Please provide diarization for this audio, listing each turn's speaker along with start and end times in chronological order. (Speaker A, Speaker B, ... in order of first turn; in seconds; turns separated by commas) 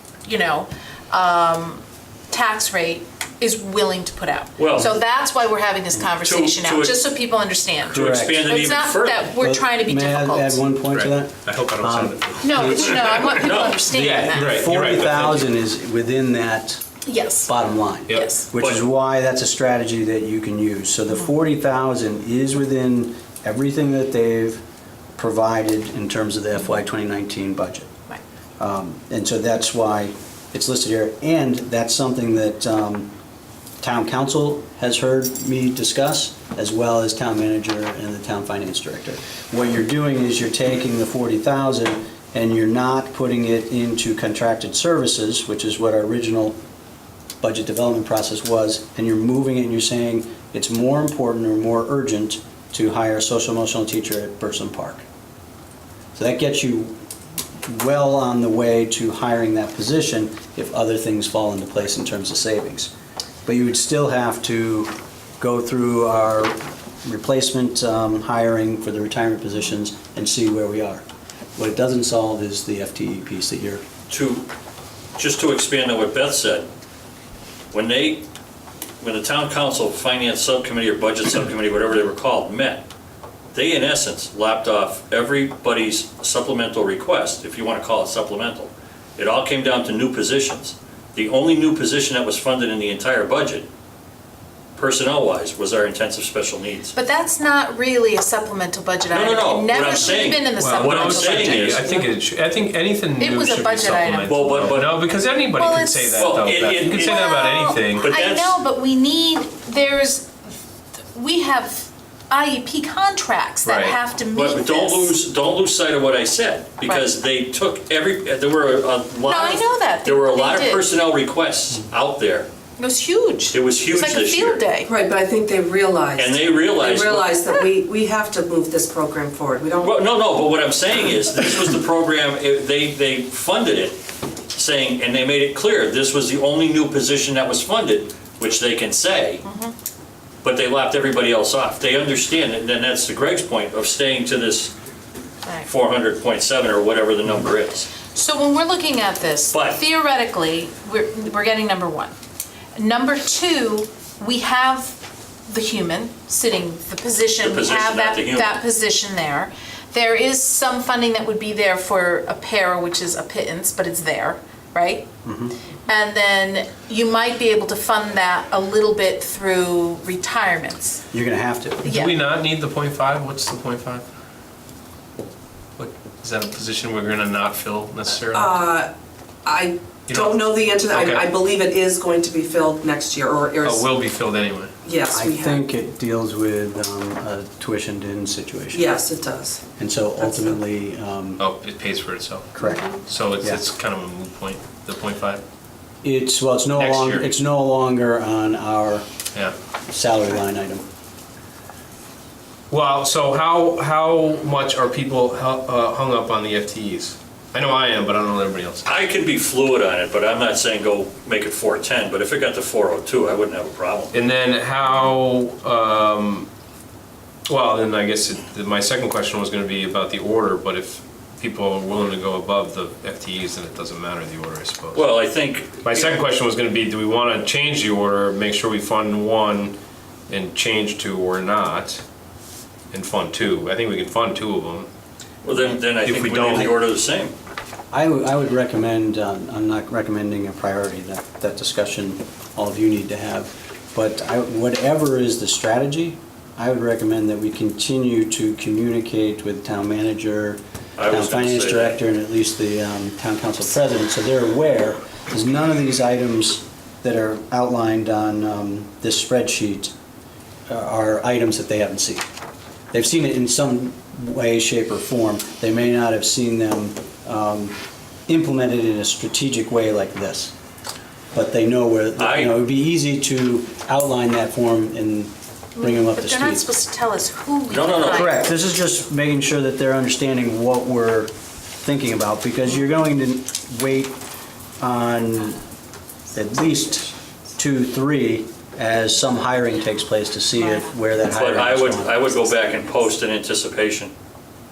Speaker A: 0.2-10.6, Speaker B: 4.6-4.9, Speaker B: 6.2-7.0, Speaker B: 7.9-9.3, Speaker C: 7.9-8.5, Speaker C: 9.4-13.0, Speaker D: 10.9-13.0, Speaker A: 12.4-14.6, Speaker B: 13.2-13.9, Speaker D: 13.8-15.5, Speaker C: 14.3-16.8, Speaker A: 17.1-17.5, Speaker C: 17.5-24.6, Speaker A: 18.1-18.5, Speaker C: 25.2-27.9, Speaker C: 28.6-33.1, Speaker C: 33.8-46.6, Speaker C: 47.4-55.0, Speaker C: 56.2-57.0, Speaker C: 57.7-62.9, Speaker C: 63.5-71.0, Speaker C: 71.6-73.8, Speaker B: 74.1-74.5, Speaker B: 75.2-76.7, Speaker B: 77.7-78.2, Speaker B: 79.0-82.9, Speaker B: 83.5-93.7, Speaker B: 94.8-96.9, Speaker A: 96.9-102.1, Speaker B: 99.1-101.8, Speaker D: 100.6-108.1, Speaker A: 103.2-104.8, Speaker B: 104.3-105.0, Speaker A: 105.5-110.3, Speaker B: 106.2-107.2, Speaker B: 108.0-108.6, Speaker A: 111.1-115.1, Speaker D: 113.7-114.0, Speaker B: 114.3-122.5, Speaker A: 119.2-120.8, Speaker A: 122.8-124.9, Speaker B: 123.5-124.6, Speaker E: 124.9-130.2, Speaker B: 126.2-127.5, Speaker B: 129.8-134.0, Speaker B: 134.5-139.4, Speaker A: 139.4-139.7, Speaker B: 140.4-144.7, Speaker B: 145.7-147.9, Speaker A: 148.1-152.2, Speaker B: 149.5-149.8, Speaker A: 152.8-165.1, Speaker B: 157.4-158.6, Speaker C: 165.2-165.5, Speaker A: 165.9-171.0, Speaker C: 171.1-171.8, Speaker A: 171.8-172.2, Speaker D: 171.8-174.0, Speaker D: 175.8-178.6, Speaker E: 178.3-178.9, Speaker E: 179.4-183.9, Speaker D: 180.1-181.3, Speaker D: 183.6-184.7, Speaker E: 184.8-185.6, Speaker C: 185.1-188.9, Speaker E: 188.7-189.6, Speaker C: 189.8-191.4, Speaker E: 190.2-190.6, Speaker D: 191.4-195.4, Speaker C: 192.6-192.9, Speaker E: 192.6-192.9, Speaker C: 196.0-199.0, Speaker D: 196.8-197.3, Speaker C: 199.9-200.8, Speaker D: 202.7-209.0, Speaker B: 208.8-214.2, Speaker D: 214.1-216.5, Speaker D: 217.5-225.1, Speaker B: 224.9-226.2, Speaker D: 225.8-229.8, Speaker D: 230.3-232.0, Speaker D: 232.9-234.9, Speaker B: 235.4-237.3, Speaker D: 236.0-236.8, Speaker C: 237.9-259.9, Speaker B: 251.0-252.0, Speaker C: 260.7-262.2, Speaker C: 262.9-267.8, Speaker C: 268.3-270.5, Speaker C: 271.3-276.7, Speaker B: 272.2-272.6, Speaker A: 275.8-278.5, Speaker B: 277.7-278.4, Speaker C: 278.1-281.3, Speaker C: 281.8-284.1, Speaker C: 284.8-285.6, Speaker C: 286.3-292.2, Speaker B: 291.3-294.1